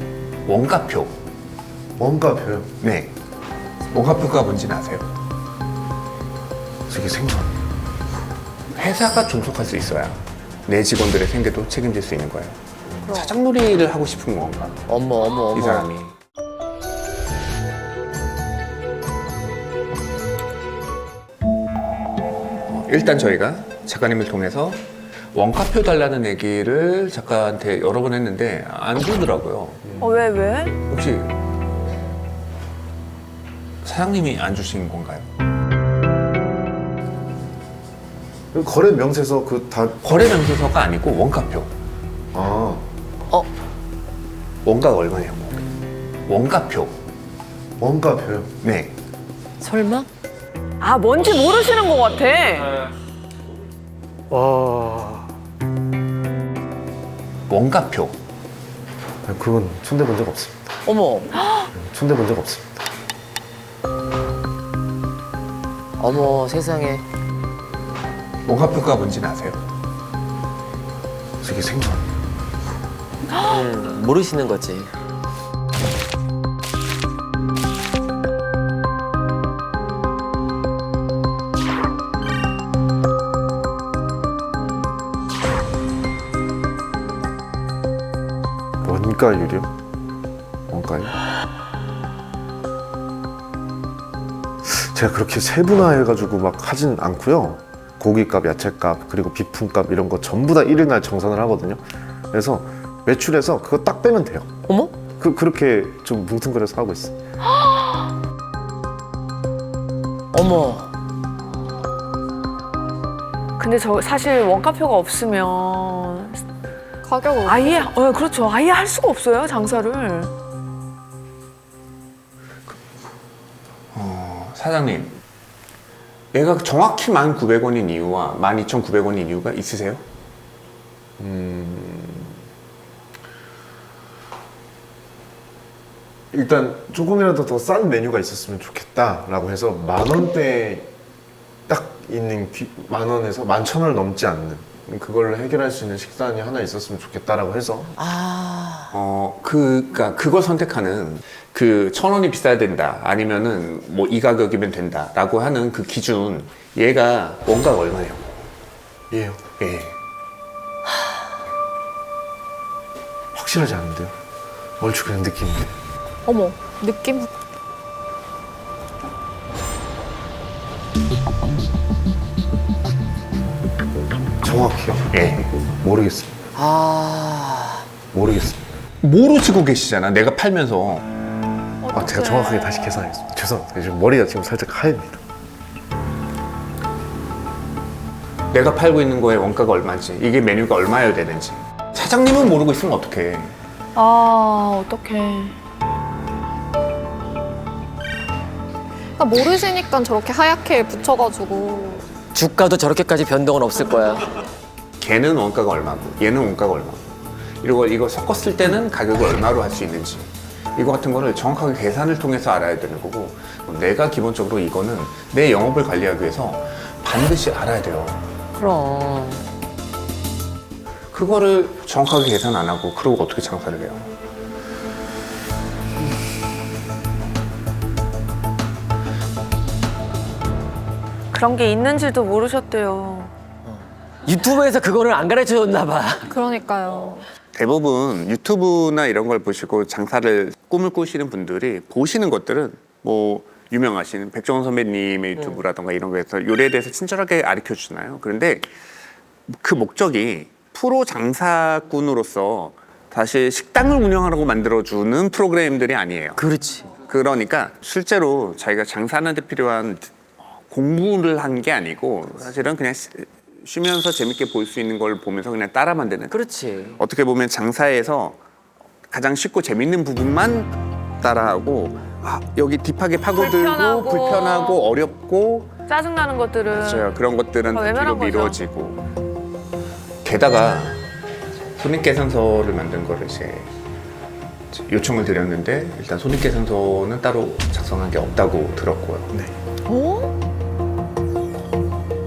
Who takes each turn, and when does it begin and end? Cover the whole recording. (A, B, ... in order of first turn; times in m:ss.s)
0:00.4-0:01.2 A
0:02.0-0:02.7 B
0:02.8-0:03.1 A
0:03.9-0:05.1 A
0:06.9-0:07.5 B
0:08.8-0:14.9 A
0:13.0-0:13.4 C
0:14.9-0:15.9 C
0:15.5-0:16.1 A
0:22.6-0:29.8 A
0:30.0-0:30.8 D
0:30.9-0:31.3 A
0:33.8-0:35.3 A
0:38.5-0:40.0 B
0:40.0-0:41.7 A
0:42.3-0:42.9 B
0:44.6-0:45.6 A
0:46.3-0:47.0 A
0:47.8-0:48.5 B
0:48.6-0:49.0 A
0:49.6-0:50.1 C
0:50.8-0:52.8 D
0:54.3-0:55.3 B
0:57.5-0:58.2 A
0:59.2-1:00.7 B
1:00.9-1:01.3 C
1:01.4-1:01.7 D
1:01.7-1:02.8 B
1:06.0-1:07.0 C
1:08.5-1:09.6 A
1:11.4-1:12.0 B
1:13.3-1:13.7 D
1:13.5-1:14.9 C
1:28.8-1:29.7 B
1:30.7-1:31.2 B
1:34.6-1:44.5 B
1:44.7-1:45.0 C
1:45.2-1:47.2 B
1:50.3-1:50.9 C
1:53.6-1:56.4 D
1:57.0-1:57.9 E
1:57.4-2:00.3 D
2:03.9-2:05.2 A
2:06.3-2:10.0 A
2:11.2-2:12.4 B
2:16.3-2:20.9 B
2:21.7-2:28.0 B
2:28.0-2:28.9 C
2:28.9-2:38.5 A
2:39.1-2:39.4 B
2:39.6-2:40.0 A
2:43.3-2:44.2 B
2:44.8-2:45.8 B
2:46.3-2:47.3 E
2:54.4-2:55.1 B
2:55.1-2:55.6 A
2:55.7-2:56.4 B
2:56.6-2:57.9 C
2:58.1-2:58.6 B
2:59.0-3:01.1 A
3:01.8-3:03.0 D
3:01.9-3:05.2 B
3:08.5-3:13.6 A
3:14.0-3:15.6 D
3:19.2-3:22.1 E
3:22.3-3:24.3 C
3:25.0-3:38.3 A
3:38.6-3:39.4 C
3:41.1-3:44.1 A
3:51.3-3:53.3 D
3:53.7-3:56.3 C
3:56.3-3:57.3 E
3:57.5-4:08.7 A
4:09.5-4:16.4 A
4:16.4-4:16.9 C
4:17.0-4:20.1 A
4:20.7-4:26.4 A
4:26.3-4:27.0 C
4:27.0-4:28.4 A
4:29.1-4:35.7 A
4:33.4-4:34.8 D
4:35.9-4:37.1 D
4:36.7-4:39.0 A
4:37.7-4:38.6 D
4:40.2-4:41.0 A
4:41.8-4:43.7 A
4:44.7-4:49.4 A
4:49.9-4:50.3 E